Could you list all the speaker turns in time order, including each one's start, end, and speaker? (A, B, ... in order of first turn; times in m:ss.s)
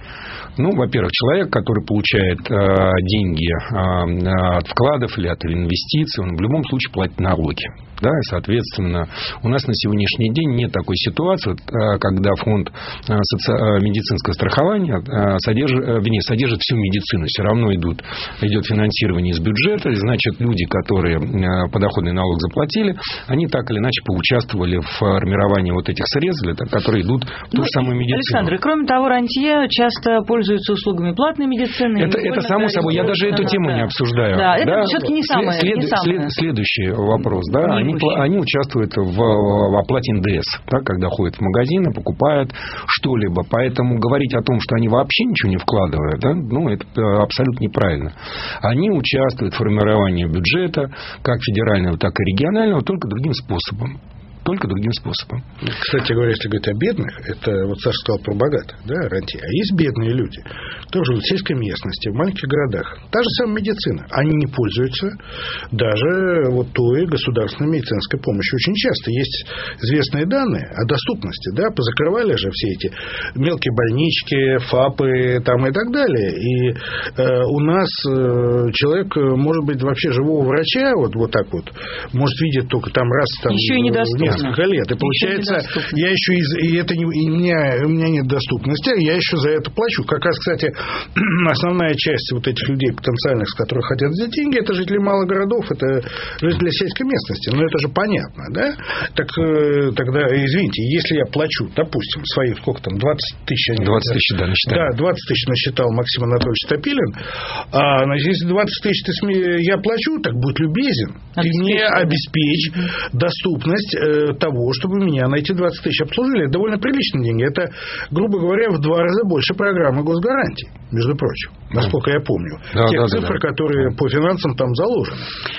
0:00.6-0:28.5 A
0:27.5-0:36.3 B
0:32.0-0:55.4 A
0:37.6-0:38.2 B
0:55.6-1:05.2 C
1:05.7-1:47.2 C
1:23.5-1:26.0 B
1:43.8-1:44.9 A
1:47.7-2:05.3 C
1:51.4-1:52.2 B
2:02.7-2:03.4 A